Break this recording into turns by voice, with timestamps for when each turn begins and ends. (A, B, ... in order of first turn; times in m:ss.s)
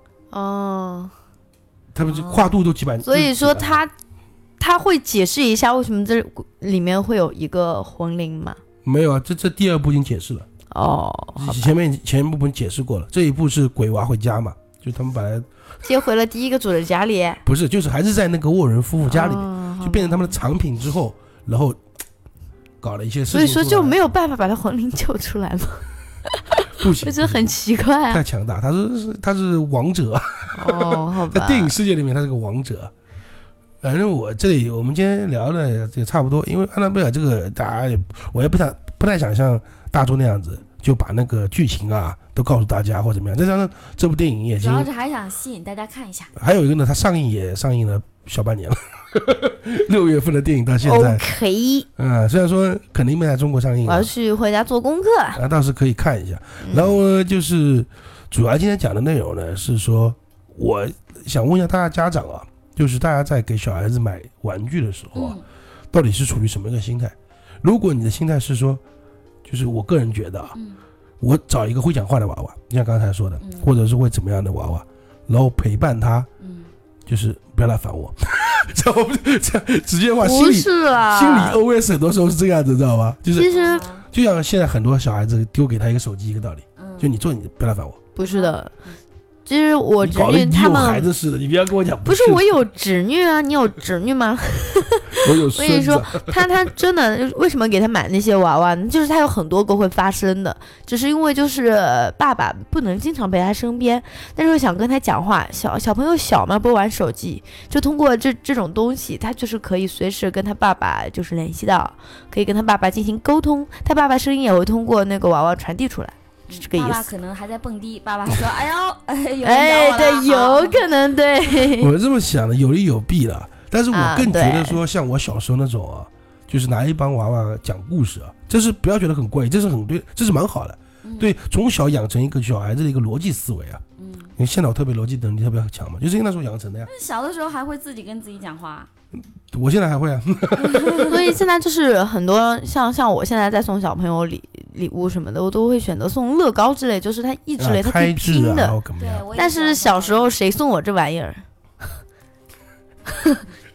0:00.3-0:01.1 A
0:01.9-0:03.8 B
0:03.0-0:03.9 A
0:04.6-0:08.6 A
0:08.8-0:10.5 B
0:10.7-0:11.7 A
0:11.4-0:15.5 B
0:15.8-0:17.4 A
0:17.4-0:21.8 B
0:19.0-0:20.4 A
0:22.8-0:24.0 B
0:23.3-0:25.9 A
0:26.4-0:28.2 A
0:26.8-0:27.5 B
0:28.1-0:32.9 B
0:30.5-0:31.7 A
0:33.8-0:44.9 B
0:44.6-0:46.3 C
0:46.4-0:51.2 B
0:50.8-0:51.9 A
0:52.0-0:54.1 B
0:53.8-0:55.4 A
0:55.3-1:05.4 B
0:56.6-0:57.0 A
1:05.1-1:05.4 C
1:05.9-1:08.8 B
1:09.4-1:10.6 B
1:11.2-1:16.3 B
1:13.4-1:13.7 C
1:16.4-1:16.7 C
1:17.0-1:23.5 B
1:20.2-1:21.6 A
1:23.4-1:23.8 A
1:23.5-1:24.0 C
1:24.1-1:28.0 B
1:26.8-1:27.1 C
1:28.2-1:28.7 A
1:28.2-1:29.0 C
1:29.4-1:31.1 A
1:30.0-1:32.4 B
1:32.0-1:57.1 A
1:35.2-1:36.4 B
1:56.5-2:00.9 C
1:59.4-2:01.9 A
2:01.8-2:13.8 B
2:03.9-2:04.8 A
2:11.0-2:11.3 C
2:14.0-2:14.3 C
2:14.4-2:16.9 B
2:16.9-2:18.9 C
2:19.5-2:21.2 B
2:20.6-2:21.2 C
2:21.0-2:28.8 A
2:27.6-2:29.2 B
2:29.0-2:30.3 C
2:29.3-2:31.4 A